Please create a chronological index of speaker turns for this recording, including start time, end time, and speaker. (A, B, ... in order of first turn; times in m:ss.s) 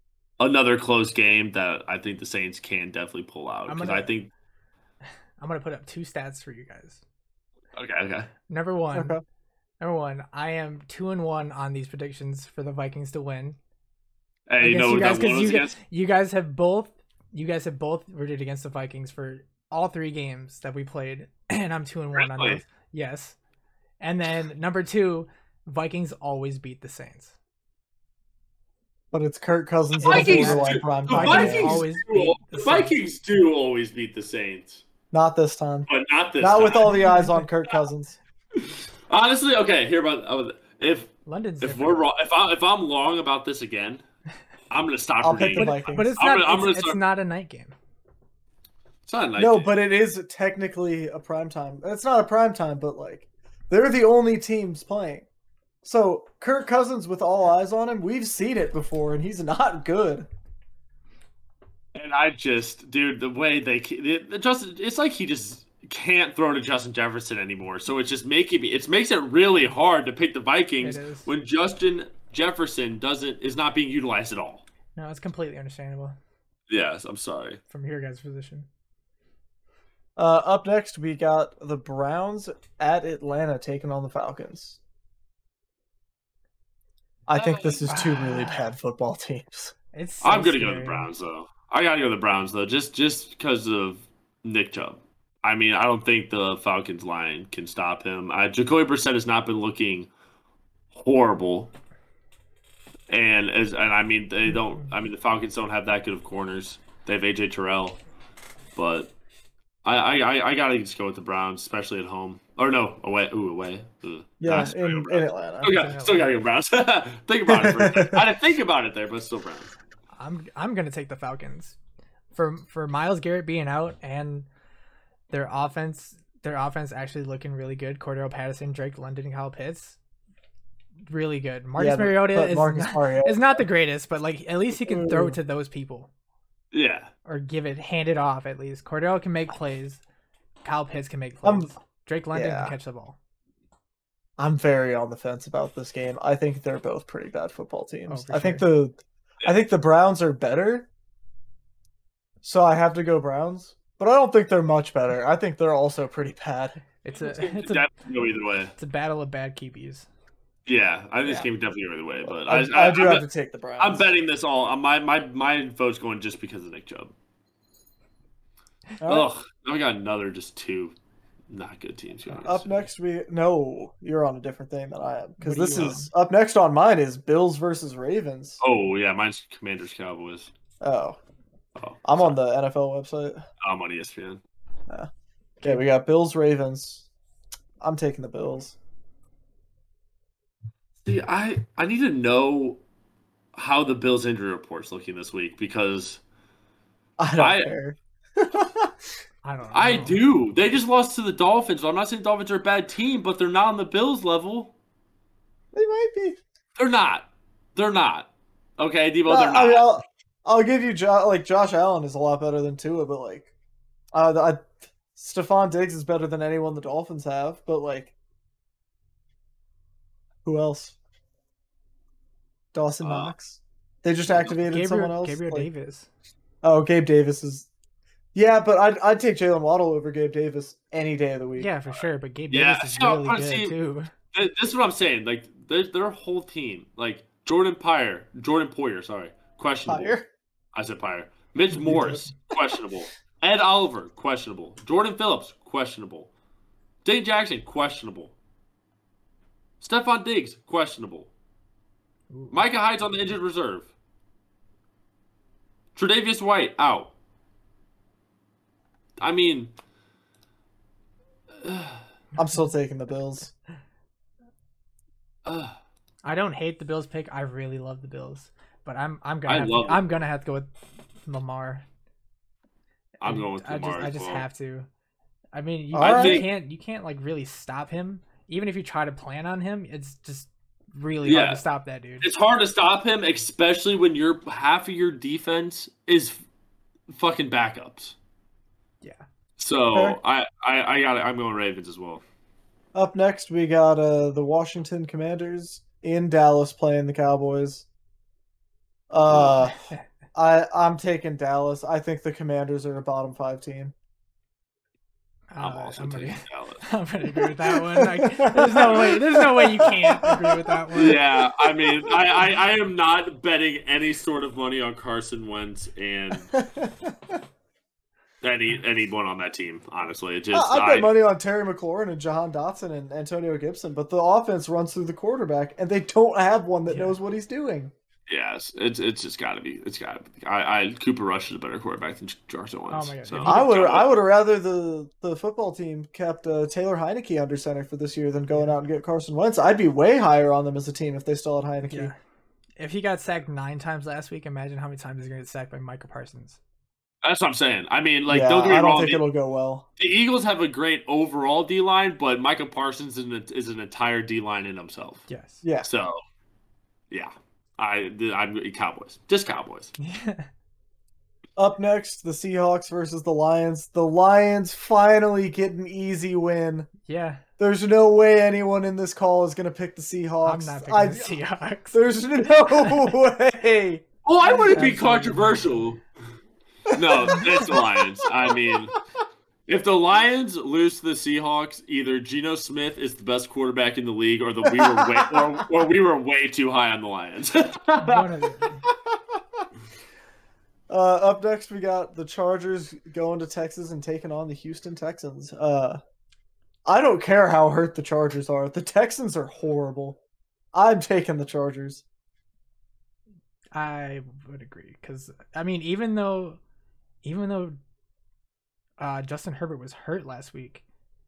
0:00.4-0:04.3 A
0:03.7-0:04.1 B
0:05.4-0:07.0 B
0:07.7-0:08.3 A
0:08.5-0:09.2 B
0:08.9-0:09.2 C
0:09.8-0:13.6 B
0:14.5-0:15.7 A
0:14.6-0:23.4 B
0:22.2-0:22.6 A
0:24.0-0:27.3 B
0:29.1-0:31.8 C
0:30.0-0:33.0 B
0:30.0-0:34.8 A
0:35.1-0:38.2 C
0:35.9-0:37.0 A
0:36.9-0:37.4 B
0:38.6-0:44.0 A
0:41.2-0:42.0 B
0:44.7-0:47.0 A
0:45.2-0:46.2 C
0:45.6-0:47.7 B
0:49.1-0:49.7 A
0:49.4-0:55.2 C
0:55.8-1:00.3 C
1:01.9-1:14.6 A
1:10.8-1:11.3 B
1:14.9-1:16.2 B
1:16.7-1:17.6 A
1:17.7-1:18.7 B
1:20.2-1:24.8 C
1:27.3-1:29.7 C
1:27.4-1:27.8 A
1:27.9-1:28.7 B
1:29.9-1:31.1 B
1:30.2-1:40.1 A
1:40.9-1:41.7 A
1:43.1-1:48.0 A
1:48.8-1:49.1 A
1:49.8-1:59.7 A
1:54.4-1:55.8 C
1:55.6-1:56.4 B
1:57.5-1:58.2 C
2:00.2-2:01.8 B
2:02.3-2:04.5 B
2:05.3-2:10.0 B
2:11.1-2:16.1 B
2:11.8-2:13.6 C
2:14.8-2:15.4 C
2:16.7-2:17.1 A
2:17.2-2:20.0 B
2:20.6-2:23.2 B
2:21.4-2:21.7 C
2:22.3-2:22.8 C
2:24.4-2:30.9 C
2:28.1-2:28.7 B
2:32.4-2:36.8 C
2:37.0-2:37.9 B
2:37.2-2:38.7 A
2:38.8-2:40.1 B
2:40.6-2:43.2 A
2:42.3-2:44.1 C
2:43.8-2:47.1 A
2:49.0-2:49.3 C
2:49.0-2:50.9 A
2:51.5-2:52.8 A
2:52.4-2:58.6 C
2:55.4-2:56.1 B
2:58.6-3:00.5 A
3:00.8-3:01.2 C
3:01.8-3:02.4 A
3:02.0-3:03.4 C
3:03.6-3:04.4 A
3:05.6-3:07.1 C
3:07.8-3:08.8 C
3:11.0-3:12.8 A
3:13.5-3:16.2 A
3:17.2-3:19.0 C
3:17.4-3:17.7 A
3:19.4-3:20.2 B
3:19.7-3:24.7 A
3:25.7-3:26.4 C
3:26.8-3:29.9 A
3:29.3-3:33.5 C
3:34.1-3:38.1 C
3:40.4-3:41.0 C
3:42.7-3:45.7 C
3:43.0-3:43.3 A
3:44.6-3:46.1 B
3:46.6-3:47.7 C
3:48.3-3:51.7 C
3:51.6-3:54.1 B
3:52.5-3:53.7 A
3:54.3-4:00.2 A
3:59.9-4:00.2 C
4:00.7-4:06.3 A
4:01.8-4:02.2 C
4:01.8-4:02.3 B
4:07.0-4:08.3 A
4:09.8-4:11.3 A
4:12.3-4:12.6 B
4:12.5-4:13.9 A
4:15.9-4:17.1 A
4:19.2-4:19.7 A
4:21.6-4:22.0 A
4:22.4-4:23.5 C
4:25.4-4:25.8 A
4:26.2-4:30.7 B
4:29.5-4:30.2 A
4:31.2-4:31.8 B
4:33.2-4:34.4 A
4:33.2-4:34.9 B
4:35.5-4:42.3 B
4:35.9-4:36.4 C
4:36.0-4:36.5 A
4:41.2-4:41.6 A
4:42.2-4:46.4 A
4:47.1-4:48.1 A
4:49.6-4:52.2 A
4:49.9-4:50.2 C
4:52.9-4:57.8 C
4:59.1-4:59.8 C
4:59.3-4:59.6 A
5:00.3-5:03.9 C
5:05.5-5:11.2 B
5:05.6-5:06.8 A
5:07.3-5:12.6 C
5:10.9-5:16.5 A
5:16.5-5:17.4 C
5:18.4-5:21.1 A
5:20.5-5:27.9 C
5:26.9-5:27.2 B
5:28.3-5:34.1 A
5:32.9-5:33.6 B
5:33.4-5:42.1 C
5:41.9-5:42.2 B
5:42.8-5:46.6 B
5:47.2-5:49.2 A
5:48.3-5:49.8 C
5:50.0-5:55.2 A
5:55.3-5:55.6 B
5:55.6-5:55.9 C
5:55.8-5:56.2 A
5:57.1-5:59.9 A
6:00.0-6:00.5 B
6:01.6-6:06.9 C
6:07.0-6:07.4 B
6:07.6-6:11.4 C
6:10.4-6:12.0 B
6:11.9-6:14.9 C
6:12.7-6:13.0 B
6:14.2-6:16.0 A
6:14.7-6:15.8 B
6:16.9-6:18.6 C
6:16.9-6:19.0 A
6:19.7-6:28.3 A
6:24.6-6:25.4 C
6:28.0-6:28.8 B
6:30.9-6:36.0 C
6:36.8-6:40.2 C
6:40.7-6:42.0 C
6:43.7-6:46.6 B
6:47.2-6:47.8 B
6:49.0-6:50.8 B